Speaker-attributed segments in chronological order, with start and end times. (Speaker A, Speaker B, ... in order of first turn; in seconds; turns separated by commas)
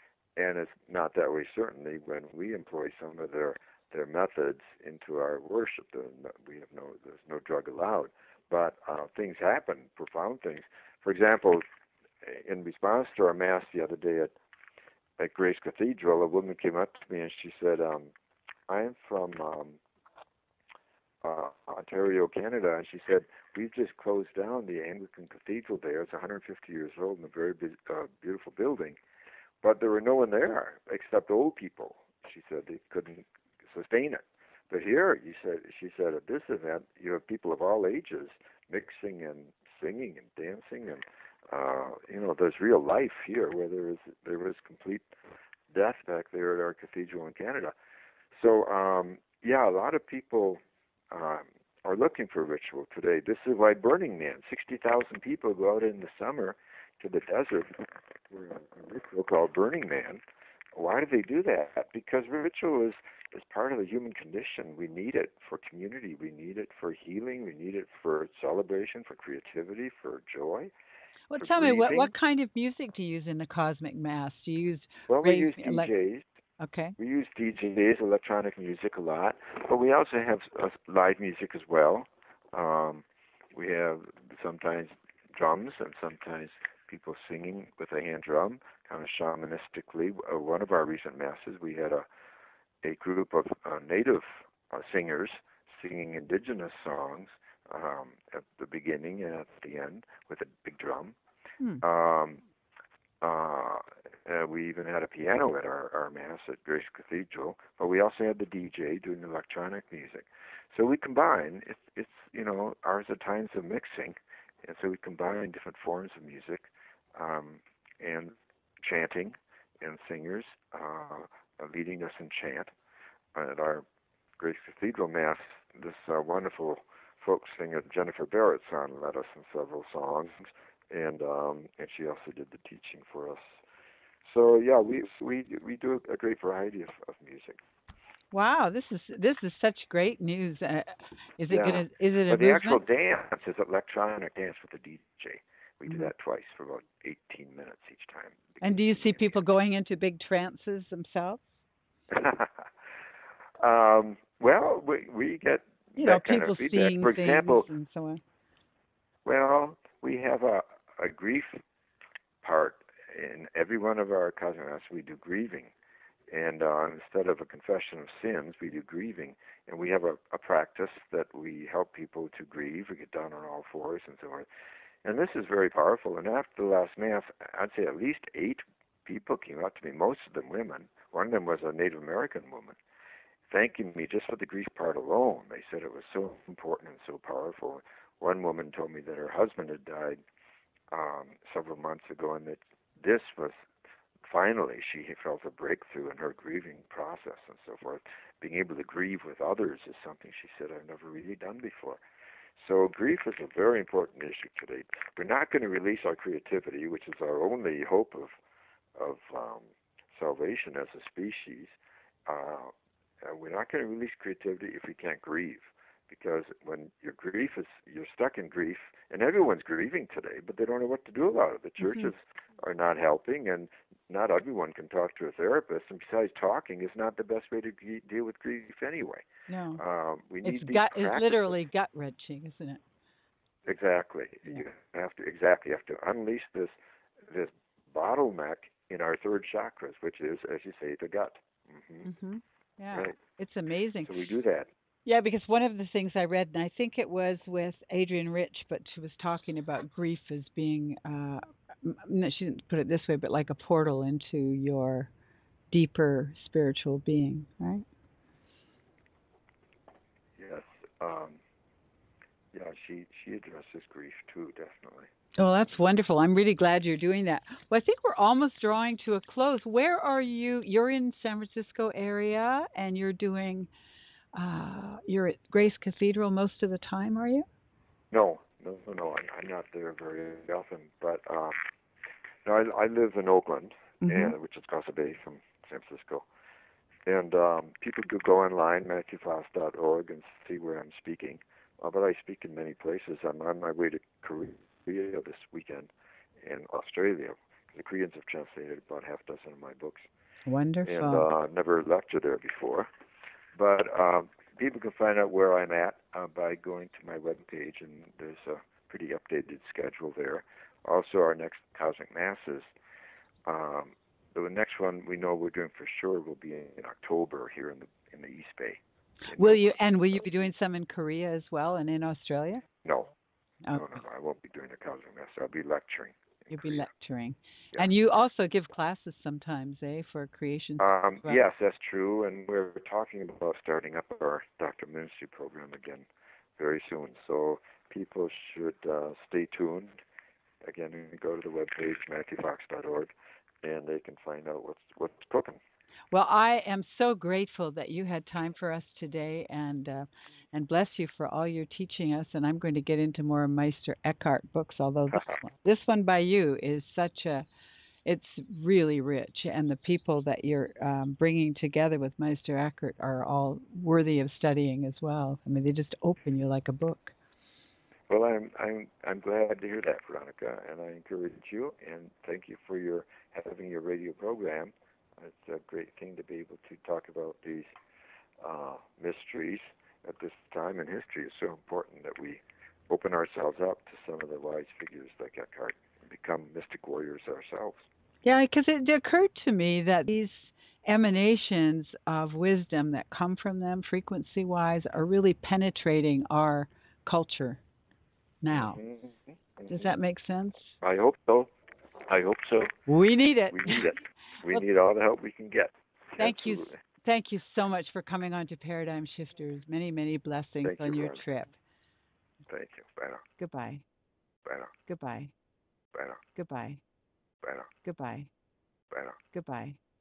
Speaker A: 0.4-11.6, Speaker A: 12.2-14.4, Speaker A: 15.2-18.1, Speaker A: 18.7-19.8, Speaker A: 21.2-29.0, Speaker A: 29.6-45.1, Speaker A: 45.7-47.7, Speaker A: 48.3-50.6, Speaker A: 51.1-60.2, Speaker A: 60.8-70.7, Speaker B: 71.3-75.9, Speaker A: 71.4-72.1, Speaker A: 75.1-76.2, Speaker B: 76.6-77.0, Speaker A: 77.0-92.0, Speaker A: 92.8-101.2, Speaker A: 101.8-102.4, Speaker A: 103.2-122.7, Speaker A: 123.3-123.9, Speaker A: 124.4-133.6, Speaker A: 134.2-137.6, Speaker B: 138.3-142.8, Speaker A: 141.5-149.4, Speaker B: 148.6-151.4, Speaker A: 152.1-152.7, Speaker A: 153.6-157.7, Speaker B: 156.0-158.2, Speaker A: 159.2-161.6, Speaker A: 162.4-165.7, Speaker A: 166.3-174.5, Speaker A: 175.0-182.8, Speaker A: 183.5-190.2, Speaker A: 190.9-193.6, Speaker A: 194.2-202.0, Speaker A: 202.6-208.3, Speaker A: 209.0-229.2, Speaker B: 221.8-222.1, Speaker B: 229.5-229.8, Speaker A: 229.8-231.6, Speaker B: 230.4-232.8, Speaker A: 233.7-242.1, Speaker B: 242.0-244.2, Speaker A: 244.1-244.7, Speaker B: 245.1-255.1, Speaker B: 255.7-257.9, Speaker A: 260.4-261.4, Speaker A: 262.5-265.1, Speaker B: 265.4-273.7, Speaker B: 274.4-277.5, Speaker A: 278.1-281.6, Speaker A: 282.4-286.3, Speaker B: 284.0-284.4, Speaker A: 287.1-300.1, Speaker B: 300.5-301.3, Speaker A: 300.9-302.9, Speaker A: 303.6-312.7, Speaker A: 313.5-318.8, Speaker A: 319.3-319.8, Speaker B: 319.3-322.6, Speaker A: 322.8-323.1, Speaker A: 323.7-326.9, Speaker B: 326.5-331.4, Speaker A: 330.8-340.0, Speaker A: 340.6-343.1, Speaker A: 343.6-345.6, Speaker B: 346.1-357.5, Speaker B: 358.1-367.1, Speaker A: 368.1-377.7, Speaker A: 378.4-387.9, Speaker B: 388.2-397.6, Speaker B: 398.4-398.8, Speaker A: 398.5-399.7, Speaker B: 399.7-400.7, Speaker A: 400.8-401.5, Speaker A: 402.1-402.8, Speaker B: 402.9-404.0, Speaker A: 403.5-406.8, Speaker B: 406.2-411.6, Speaker A: 410.6-411.2, Speaker A: 412.5-413.2, Speaker B: 413.4-413.9, Speaker A: 414.4-414.7, Speaker B: 414.9-415.3, Speaker A: 415.9-416.2, Speaker B: 416.3-416.8, Speaker A: 417.4-417.7, Speaker B: 417.8-418.3, Speaker A: 418.9-419.2, Speaker B: 419.3-419.8